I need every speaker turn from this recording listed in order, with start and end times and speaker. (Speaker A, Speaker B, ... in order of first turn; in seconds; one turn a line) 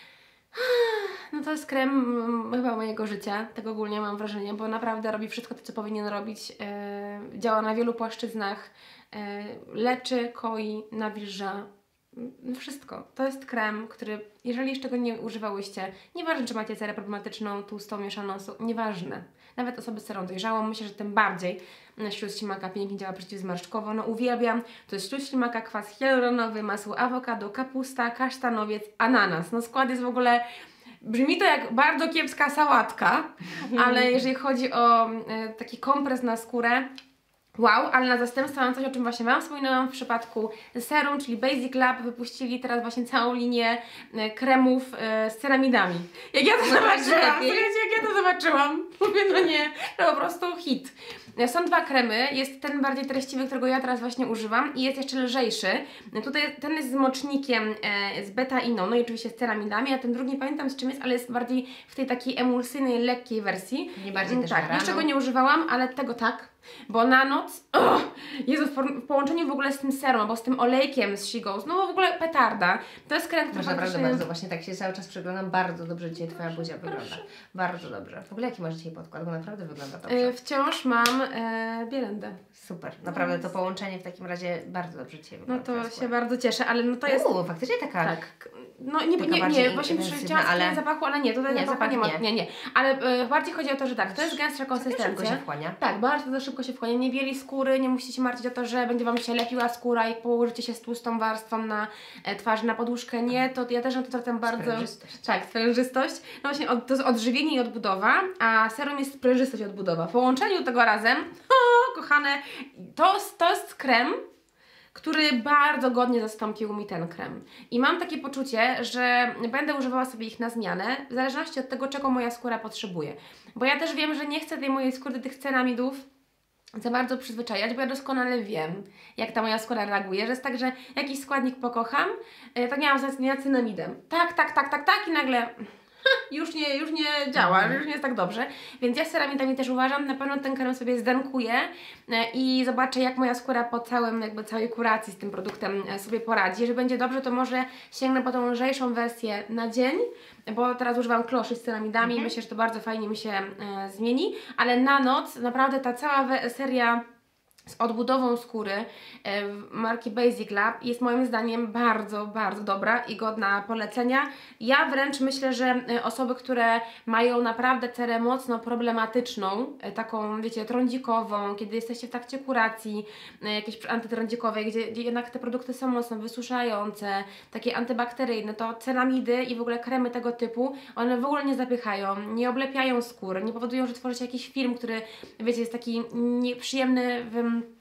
Speaker A: 0.5-30.4
Speaker A: 31.0-36.9
Speaker B: 33.6-34.1
Speaker A: 37.6-74.2
Speaker B: 46.6-47.7
Speaker B: 63.9-65.0
Speaker B: 73.5-80.3
Speaker A: 76.2-77.2
Speaker A: 80.1-82.4
Speaker B: 82.5-86.1
Speaker A: 83.1-83.5
Speaker A: 85.5-87.3
Speaker B: 87.1-88.2
Speaker A: 88.0-114.2
Speaker B: 89.2-90.8
Speaker B: 91.5-92.2
Speaker B: 94.1-95.8
Speaker B: 104.4-105.2
Speaker A: 114.9-126.1
Speaker A: 126.8-157.0
Speaker B: 137.3-137.8
Speaker B: 152.0-152.3
Speaker A: 157.7-187.7